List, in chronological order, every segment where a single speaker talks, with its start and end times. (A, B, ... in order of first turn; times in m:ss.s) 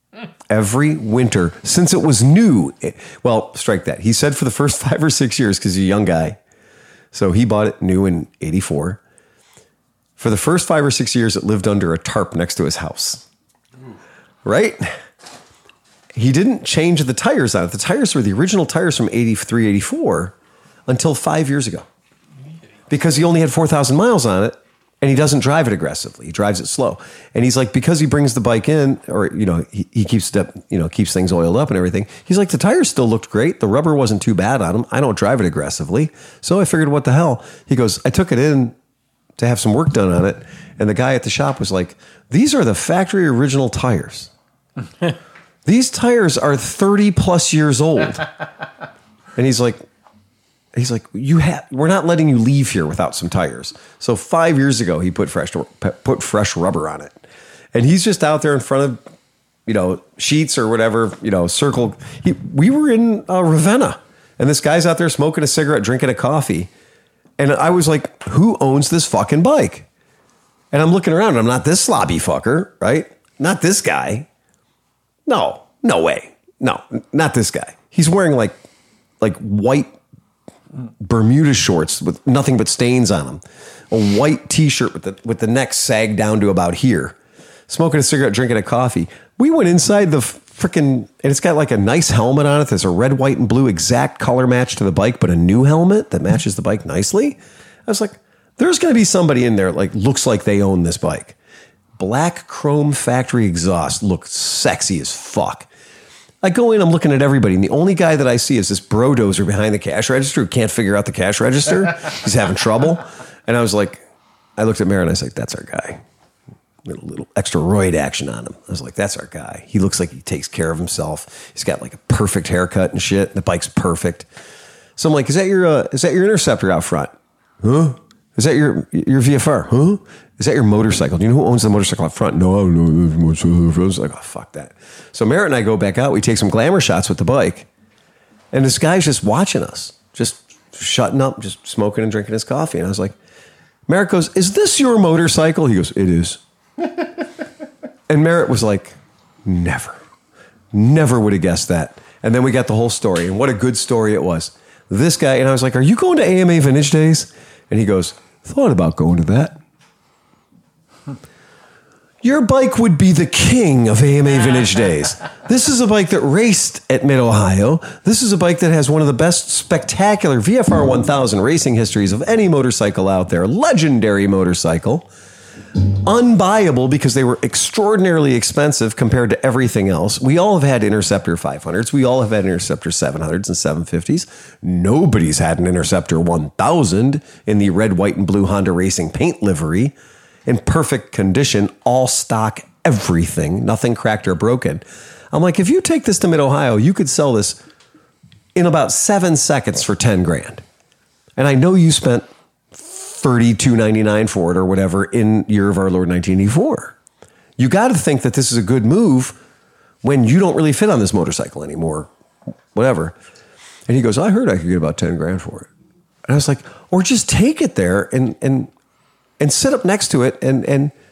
0:00.5-0:06.4 A
0:07.1-0:09.0 A
0:10.2-0:13.2 A
0:14.4-0:14.9 A
0:16.1-0:20.3 A
0:20.9-0:21.8 A
0:22.9-0:38.8 A
0:39.4-0:44.3 A
0:45.6-0:48.3 A
0:49.4-0:49.8 A
0:50.7-0:57.2 A
0:57.7-0:59.0 A
0:59.6-1:06.7 A
1:07.4-1:09.8 A
1:10.7-1:14.3 A
1:15.2-1:18.6 A
1:19.2-1:20.0 A
1:21.0-1:27.2 A
1:27.7-1:41.4 A
1:42.0-1:45.7 A
1:46.4-1:54.0 A
1:54.6-1:56.0 A
1:56.8-2:04.3 A
2:05.0-2:17.7 A
2:18.5-2:23.1 A
2:23.9-2:26.4 A
2:28.1-2:30.0 A
2:30.7-2:39.6 A
2:42.2-2:55.1 A
2:56.0-3:09.9 A
3:10.4-3:17.6 A
3:18.5-3:20.6 A
3:21.4-3:26.9 A
3:27.6-3:29.4 A
3:30.0-3:32.1 A
3:32.7-3:33.2 A
3:33.9-3:35.7 A
3:36.2-3:38.7 A
3:39.4-3:40.9 A